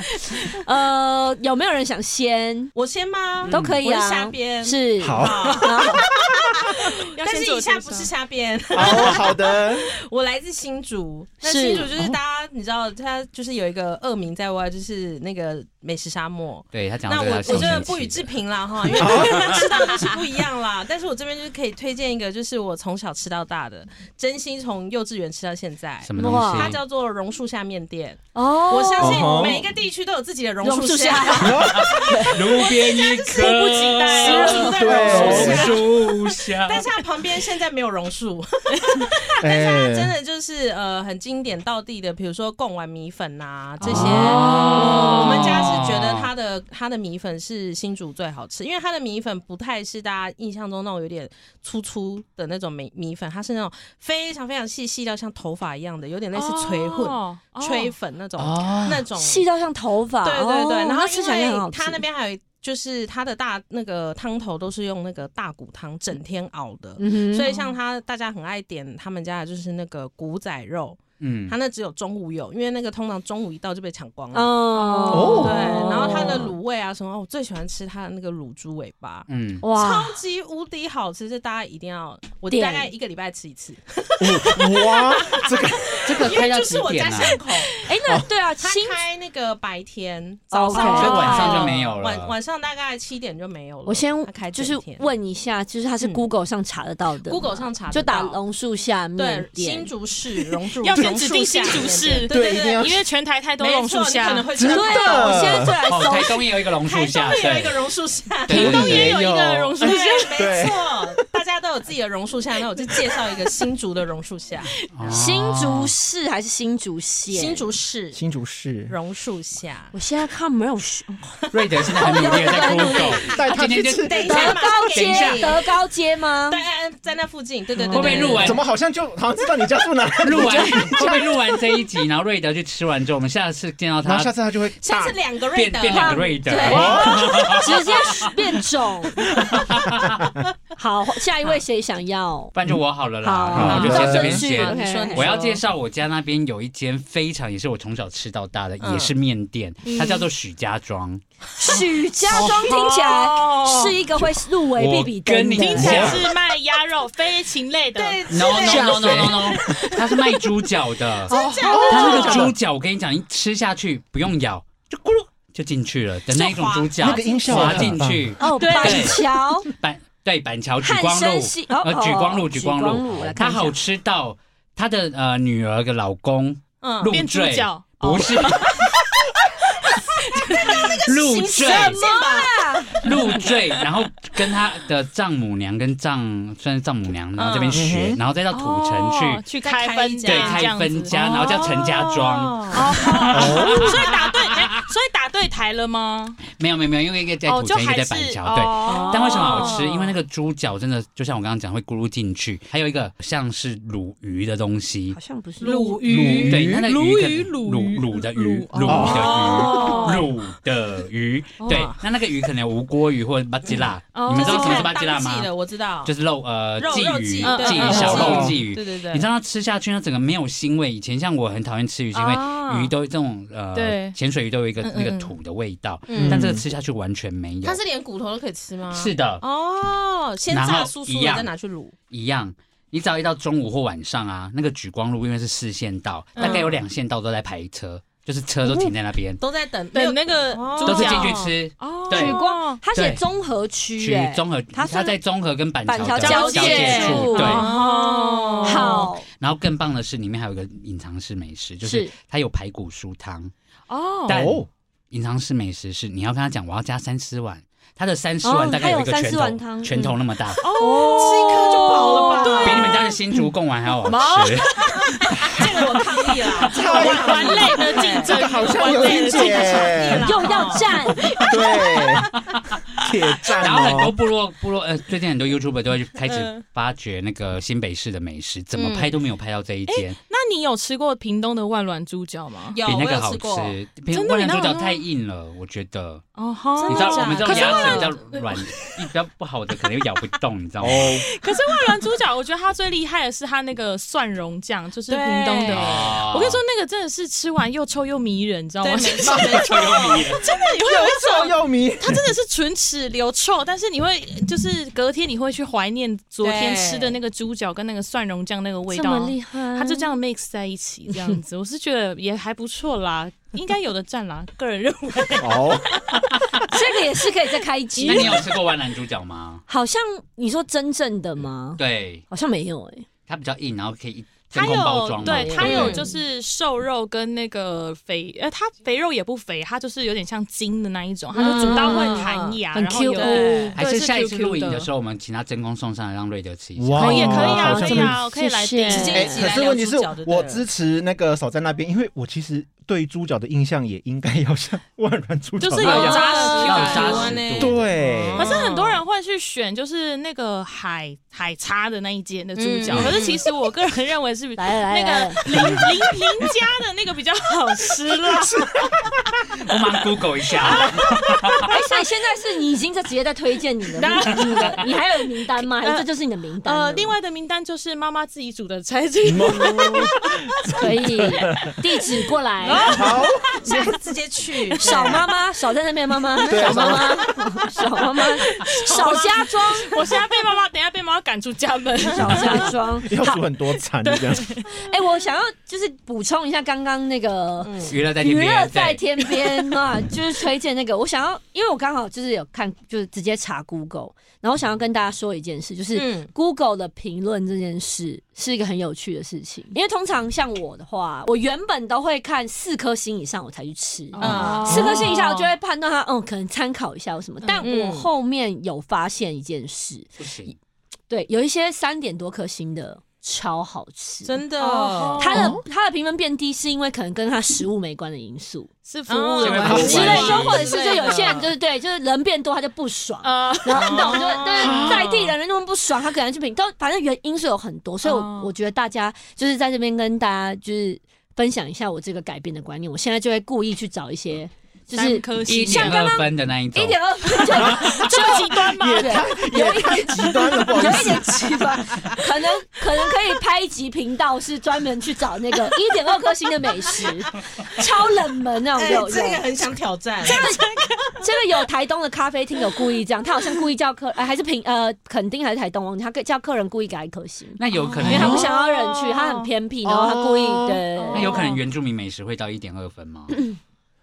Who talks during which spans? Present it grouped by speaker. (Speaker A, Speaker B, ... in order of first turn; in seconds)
Speaker A: 0.5-2.7, 3.5-6.1, 11.4-11.9, 17.5-17.9, 26.2-26.8, 28.3-29.6, 30.6-32.6, 34.0-35.7, 44.8-45.2, 59.2-62.0, 67.0-67.6, 74.3-76.5, 79.6-80.2, 82.5-82.9, 87.8-89.0, 90.5-91.7, 93.8-99.9, 104.7-106.5, 115.1-117.7, 119.9-121.2, 122.0-123.4, 124.1-126.6, 127.8-128.6, 130.4-130.8, 135.9-139.2, 140.8-142.6, 143.2-145.3, 151.6-156.1, 168.4-169.7, 170.8-173.8, 181.7-183.1, 205.1-206.0, 238.6-238.9, 242.1-245.2, 245.8-247.7, 248.6-249.3, 251.8-252.1, 258.4-262.8, 270.2-271.3, 308.9-310.1, 316.7-318.5, 319.7-323.1, 325.2-326.1, 331.4-333.8, 337.0-339.5, 354.6-355.4, 361.7-367.1, 370.8-373.0, 374.8-379.9, 382.0-383.5, 384.7-410.6, 411.1-414.4, 415.2-418.7, 419.6-438.4, 438.9-449.5, 450.2-450.6, 451.2-461.4
Speaker B: 2.8-59.5, 60.2-87.7, 88.6-95.1, 97.2-98.4, 99.2-102.9, 103.6-105.7, 106.8-109.1, 109.8-114.7, 117.3-118.2, 118.9-119.9, 121.4-123.1, 124.0-125.6, 126.5-128.6, 134.8-136.9, 143.6-145.6, 148.8-149.1, 157.9-160.0, 161.3-162.5, 166.3-168.0, 176.8-177.1, 180.3-183.6, 187.4-187.9, 189.6-192.9, 198.9-200.1, 205.6-206.5, 209.1-210.2, 211.7-212.0, 214.3-216.1, 216.8-219.3, 226.1-226.5, 227.6-231.9, 236.4-236.8, 239.4-241.5, 246.2-249.1, 260.8-263.1, 265.4-270.9, 278.8-279.2, 282.7-283.8, 286.8-288.1, 295.1-296.2, 298.8-300.4, 306.4-307.2, 325.6-326.1, 331.4-332.6, 333.2-333.8, 338.9-340.6, 345.9-349.0, 352.6-353.5, 373.6-375.2, 376.5-377.1, 378.9-380.2, 387.6-387.9, 395.9-396.3, 404.2-405.0, 407.6-408.1, 414.2-415.3, 419.1-421.5, 423.7-425.4, 448.8-450.5
Speaker C: 3.5-3.8, 5.0-5.7, 8.7-9.9, 11.9-12.2, 19.0-19.7, 29.0-29.7, 31.4-32.1, 34.7-35.8, 39.4-40.1, 75.1-75.7, 84.2-86.0, 102.2-103.0, 104.5-105.8, 108.5-111.2, 118.1-119.0, 123.3-124.3, 128.4-131.4, 134.0-135.2, 136.6-137.6, 139.5-140.1, 143.5-144.4, 155.8-156.2, 158.7-159.6, 161.7-162.6, 167.0-168.3, 187.7-188.2, 193.3-193.9, 206.1-206.9, 208.9-209.5, 217.9-218.6, 226.2-226.6, 254.3-254.7, 266.7-270.4, 271.4-272.3, 273.0-274.1, 290.8-291.3, 299.3-299.6, 300.8-302.3, 315.4-316.0, 336.8-338.2, 339.1-346.2, 347.5-348.6, 358.2-359.3, 369.2-371.7, 372.9-373.9, 376.5-377.3, 383.1-384.6, 404.7-405.0, 415.3-415.6, 424.6-425.1, 437.7-441.4, 458.0-458.5, 459.8-460.8
Speaker D: 7.1-8.1, 33.0-35.5, 44.0-45.4, 56.3-57.9, 74.8-75.5, 85.0-85.5, 87.2-87.8, 90.7-91.7, 100.8-104.5, 108.5-110.4, 149.8-150.3, 151.6-154.3, 155.6-158.9, 161.3-162.2, 168.4-169.2, 177.1-178.8, 180.3-181.0, 188.5-191.8, 192.7-196.4, 197.4-199.9, 205.6-210.3, 211.6-211.9, 214.1-214.9, 217.4-218.5, 222.1-222.9, 223.8-224.2, 224.8-225.4, 236.4-236.7, 239.9-242.8, 246.3-249.1, 253.9-254.4, 260.6-263.1, 264.0-272.2, 276.2-276.6, 279.9-282.8, 284.1-285.0, 286.4-288.9, 290.9-316.9, 318.0-318.4, 324.5-334.9, 337.0-339.4, 345.6-347.4, 348.3-359.1, 360.6-361.7, 364.0-364.9, 365.6-366.1, 366.6-370.8, 372.6-373.6, 374.8-375.2, 376.6-377.0, 378.4-382.7, 384.0-385.0, 404.1-405.5, 414.6-415.6, 418.9-420.7, 423.2-424.8, 428.0-428.5, 434.9-436.1, 437.5-439.2, 440.5-441.5, 450.2-451.4, 457.7-459.5, 461.0-461.6
Speaker E: 16.7-18.4, 26.0-26.8, 31.6-36.9, 43.8-46.3, 58.4-59.1, 71.2-71.5, 79.3-79.6, 86.0-87.4, 90.7-92.4, 105.9-107.8, 108.5-109.2, 114.9-115.9, 121.5-125.6, 127.9-128.6, 130.2-134.3, 135.5-138.1, 139.4-140.3, 142.5-151.2, 154.7-156.3, 158.3-178.8, 181.0-182.0, 183.0-189.5, 190.2-194.7, 196.5-205.2, 206.3-215.5, 216.0-227.8, 228.9-229.4, 230.5-231.5, 232.1-239.4, 240.8-242.4, 242.9-243.2, 244.0-247.7, 249.3-253.5, 254.3-260.6, 262.6-265.0, 273.6-280.2, 282.9-286.3, 286.9-291.2, 295.6-296.6, 299.5-300.4, 318.1-319.6, 321.8-322.2, 323.3-326.0, 333.8-337.6, 345.8-347.9, 352.9-353.2, 359.6-361.7, 387.9-389.0, 410.2-410.5, 419.4-420.7, 435.5-437.8, 457.6-458.5, 461.1-463.4